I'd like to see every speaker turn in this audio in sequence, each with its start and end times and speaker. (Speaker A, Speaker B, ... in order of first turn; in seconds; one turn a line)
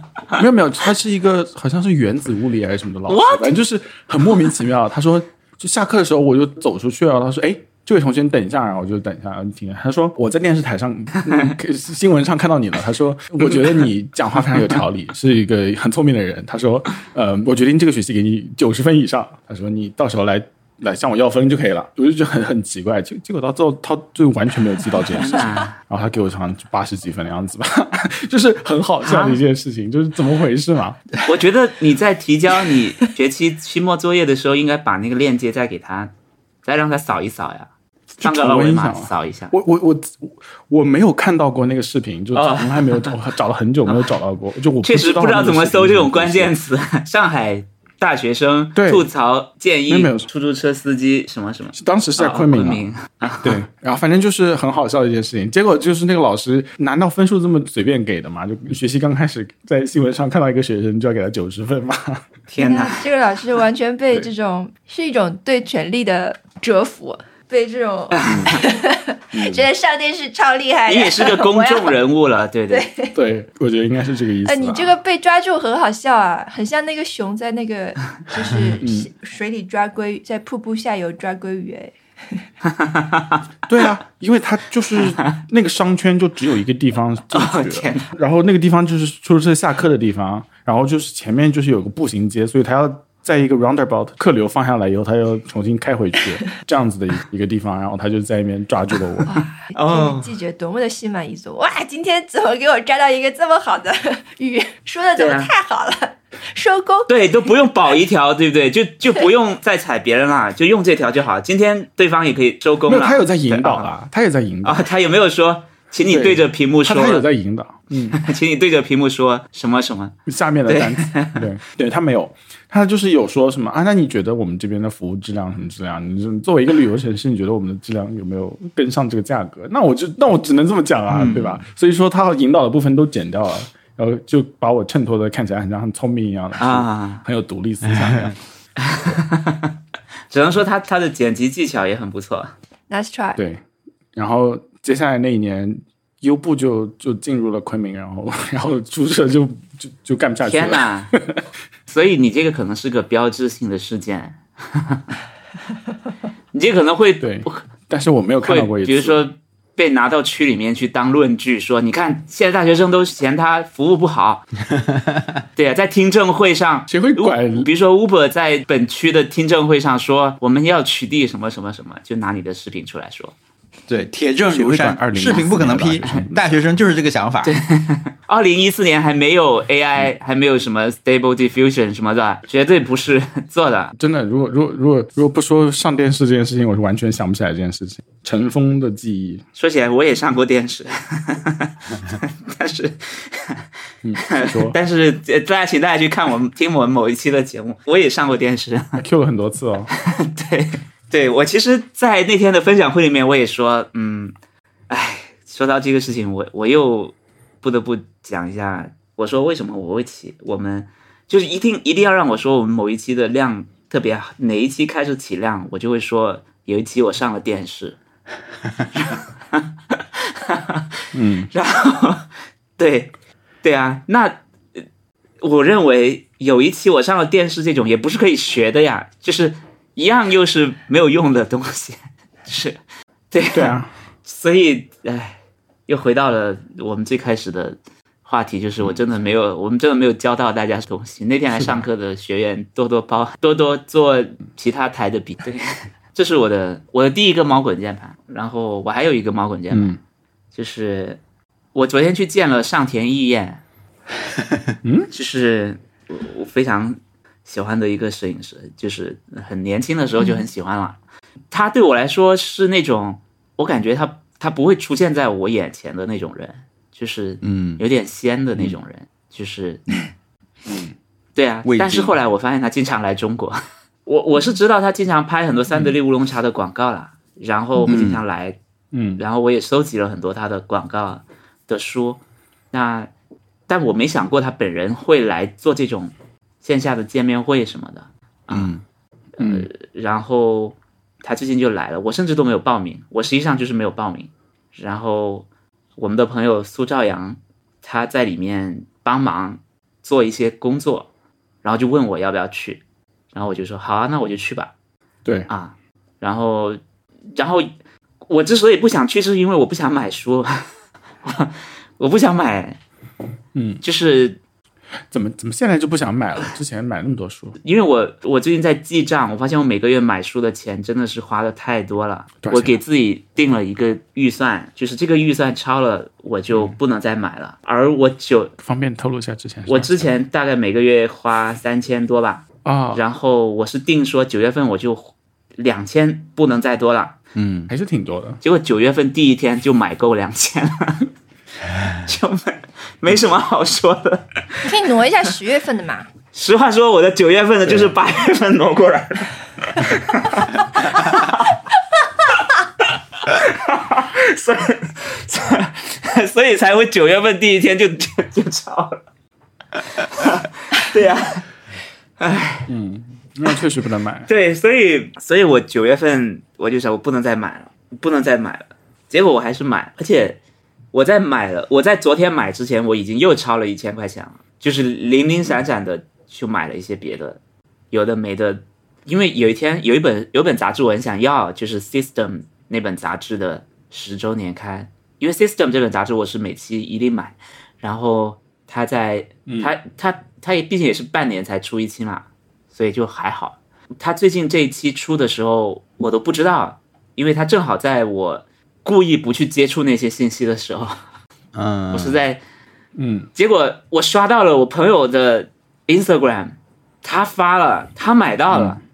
Speaker A: 0.3-31.0
Speaker B: 3.1-3.5
Speaker B: 25.1-25.8
Speaker B: 29.0-29.4
Speaker B: 31.2-36.1
Speaker B: 36.6-37.7
Speaker A: 38.2-46.5
Speaker B: 38.2-39.5
Speaker B: 42.4-43.1
Speaker B: 44.8-53.6
Speaker A: 48.8-49.1
Speaker A: 49.9-50.3
Speaker A: 51.8-52.8
Speaker A: 53.4-62.2
Speaker B: 62.5-63.1
Speaker C: 62.6-72.0
Speaker B: 68.2-68.5
Speaker A: 68.2-68.6
Speaker A: 69.3-69.7
Speaker B: 70.9-72.9
Speaker C: 72.7-73.2
Speaker A: 73.1-75.0
Speaker C: 74.5-82.0
Speaker A: 78.8-79.1
Speaker B: 82.7-83.4
Speaker A: 83.7-99.4
Speaker B: 87.3-88.0
Speaker C: 99.3-107.1
Speaker B: 99.7-100.3
Speaker B: 105.2-105.5
Speaker B: 107.1-113.9
Speaker A: 112.9-114.8
Speaker B: 114.6-117.2
Speaker A: 116.1-118.2
Speaker B: 118.1-120.1
Speaker A: 120.3-138.4
Speaker B: 120.7-121.4
Speaker B: 131.1-131.6
Speaker B: 136.6-137.2
Speaker B: 138.8-139.7
Speaker B: 140.3-142.5
Speaker C: 142.9-143.4
Speaker A: 143.4-143.6
Speaker A: 144.2-151.4
Speaker B: 150.4-151.1
Speaker B: 151.9-155.1
Speaker B: 156.5-157.6
Speaker A: 157.2-159.2
Speaker B: 158.4-164.4
Speaker B: 165.6-173.3
Speaker A: 166.9-167.7
Speaker D: 173.9-177.6
Speaker A: 174.5-176.3
Speaker B: 177.4-183.9
Speaker A: 184.0-189.4
Speaker B: 189.6-193.6
Speaker A: 194.0-194.8
Speaker B: 194.2-199.0
Speaker A: 199.0-199.9
Speaker B: 199.9-204.3
Speaker B: 204.9-218.0
Speaker B: 218.9-220.9
Speaker A: 221.1-221.5
Speaker B: 221.5-222.2
Speaker B: 222.8-223.1
Speaker B: 223.6-224.8
Speaker B: 225.4-232.8
Speaker B: 233.3-235.4
Speaker A: 233.5-233.9
Speaker B: 235.9-250.0
Speaker A: 241.6-241.8
Speaker A: 249.7-250.0
Speaker B: 250.5-251.2
Speaker B: 251.8-253.6
Speaker A: 254.8-255.1
Speaker B: 255.1-261.0
Speaker B: 261.5-270.0
Speaker D: 267.4-267.8
Speaker B: 271.4-278.6
Speaker D: 271.6-272.2
Speaker D: 277.9-278.2
Speaker A: 278.9-279.2
Speaker B: 279.2-282.2
Speaker B: 282.7-283.1
Speaker B: 283.7-288.7
Speaker D: 288.5-288.8
Speaker A: 289.4-289.7
Speaker B: 289.4-295.5
Speaker B: 296.0-301.1
Speaker B: 301.6-302.8
Speaker B: 303.3-304.7
Speaker B: 305.5-306.8
Speaker B: 307.4-307.7
Speaker B: 308.3-310.7
Speaker B: 311.2-312.8
Speaker A: 313.6-313.8
Speaker B: 313.8-314.4
Speaker A: 315.1-317.6
Speaker B: 317.6-328.5
Speaker A: 322.4-322.8
Speaker A: 328.6-330.0
Speaker B: 329.7-337.2
Speaker A: 332.6-333.0
Speaker D: 337.4-337.7
Speaker A: 337.7-338.4
Speaker B: 338.4-341.1
Speaker B: 342.0-344.8
Speaker C: 344.6-346.1
Speaker B: 346.3-351.6
Speaker A: 347.7-347.9
Speaker B: 352.8-359.0
Speaker B: 359.8-361.4
Speaker B: 362.2-362.7
Speaker A: 362.7-364.3
Speaker B: 364.3-370.4
Speaker B: 370.9-377.4
Speaker B: 377.9-401.0
Speaker A: 389.5-389.7
Speaker D: 401.6-402.2
Speaker B: 401.9-402.4
Speaker A: 403.0-403.3
Speaker B: 403.4-408.8
Speaker A: 408.5-408.8